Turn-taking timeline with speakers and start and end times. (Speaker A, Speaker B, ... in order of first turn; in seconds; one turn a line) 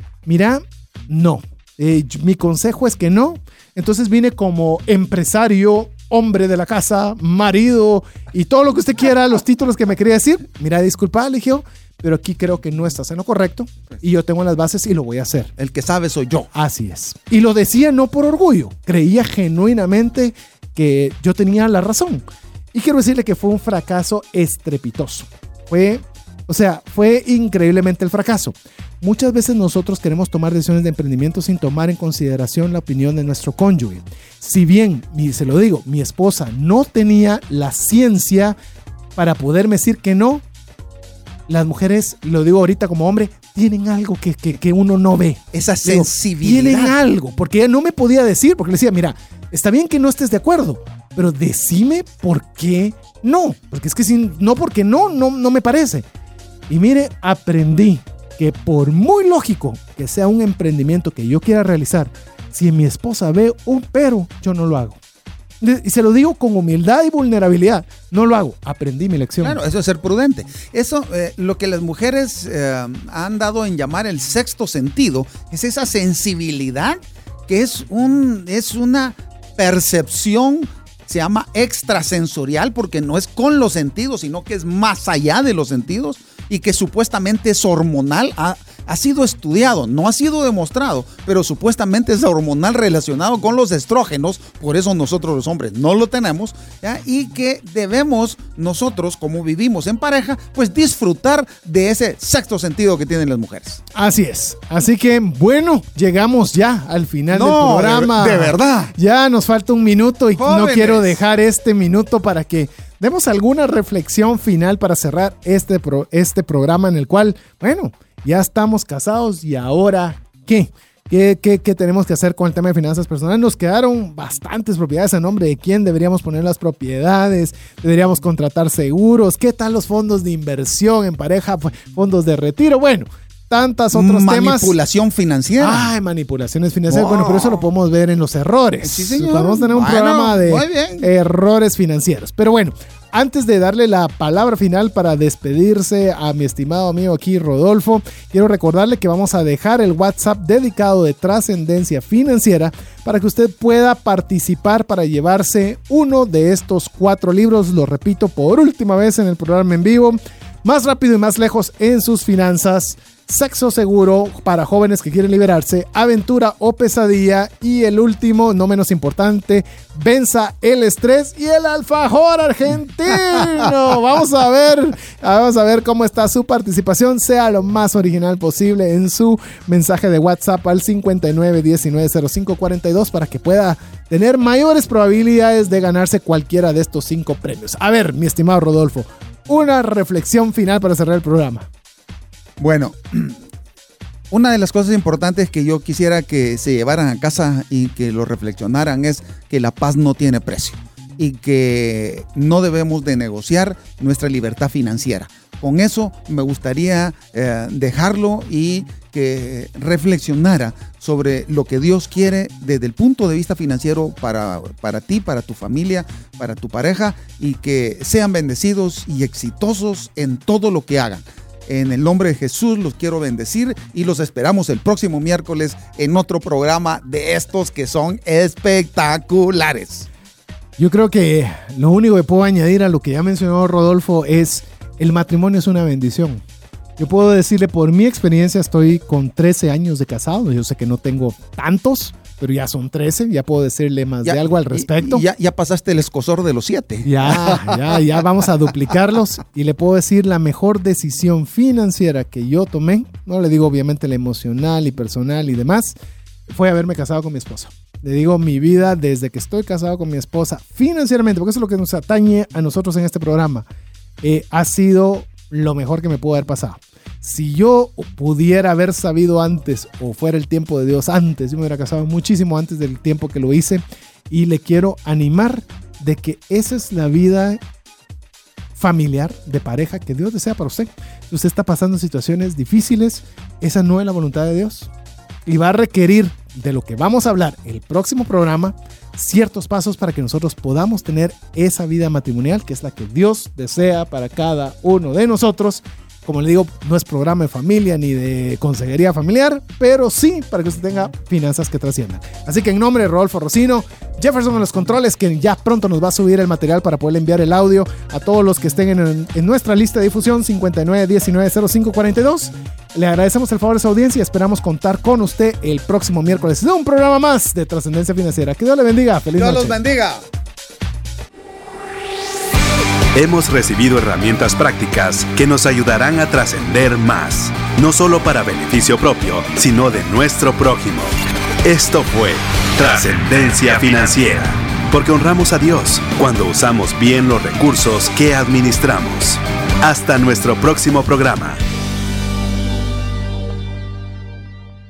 Speaker A: 0.3-15.5
Speaker B: 15.6-16.5
Speaker A: 16.5-22.2
Speaker A: 22.7-38.6
Speaker A: 39.1-40.4
Speaker A: 41.5-56.0
Speaker B: 45.5-47.0
Speaker A: 56.7-65.0
Speaker A: 65.6-69.6
Speaker B: 69.4-103.8
Speaker A: 103.9-134.7
Speaker B: 107.3-108.9
Speaker B: 110.4-111.2
Speaker B: 133.9-135.9
Speaker A: 135.6-191.7
Speaker B: 136.9-137.6
Speaker B: 138.8-141.1
Speaker B: 192.6-193.4
Speaker B: 194.3-230.1
Speaker A: 230.8-236.4
Speaker A: 237.0-245.2
Speaker B: 244.2-247.9
Speaker A: 247.0-255.9
Speaker A: 256.5-263.6
Speaker A: 264.2-277.6
Speaker A: 278.8-284.9
Speaker A: 285.4-319.8
Speaker B: 319.4-320.2
Speaker C: 323.1-341.6